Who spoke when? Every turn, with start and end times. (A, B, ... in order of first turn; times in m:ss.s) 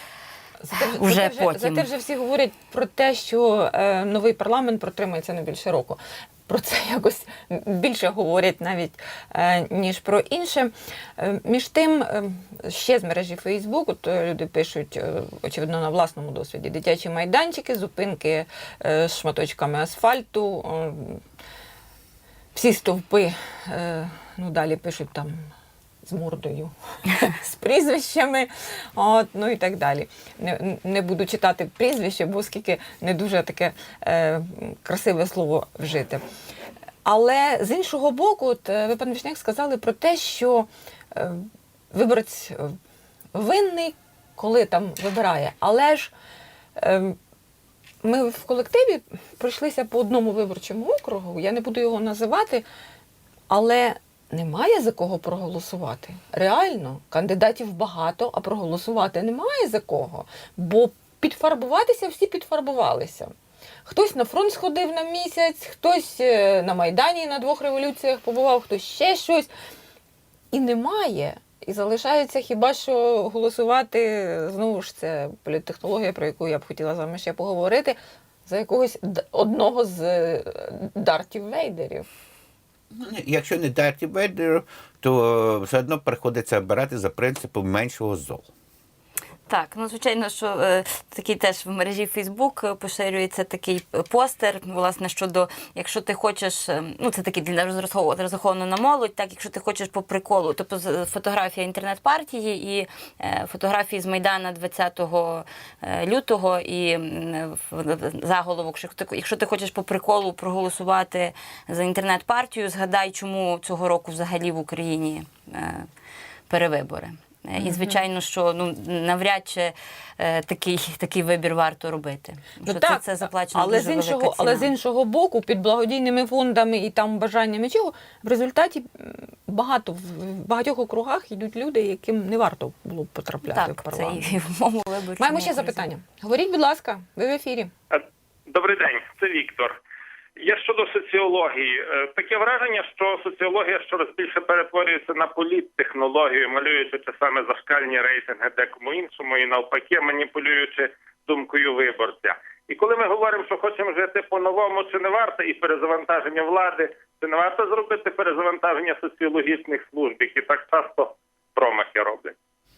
0:00.6-0:21.2 A
0:00.8-0:01.9 B
0:22.5-0:25.5 A
0:26.0-0:36.2 A
0:37.0-0:42.8 A
0:43.4-0:46.1 A
0:46.8-0:47.2 A
0:48.0-0:52.6 A
0:53.5-1:03.3 A
1:03.9-1:09.5 A
1:10.5-1:22.1 A
1:22.9-1:28.5 C
1:29.5-1:55.9 B
1:56.5-2:04.7 B
1:57.6-1:58.0 A
2:02.7-2:14.4 A
2:13.5-2:15.8 B
2:15.2-2:17.7 A
2:17.9-2:19.8 D
2:20.4-2:42.3 D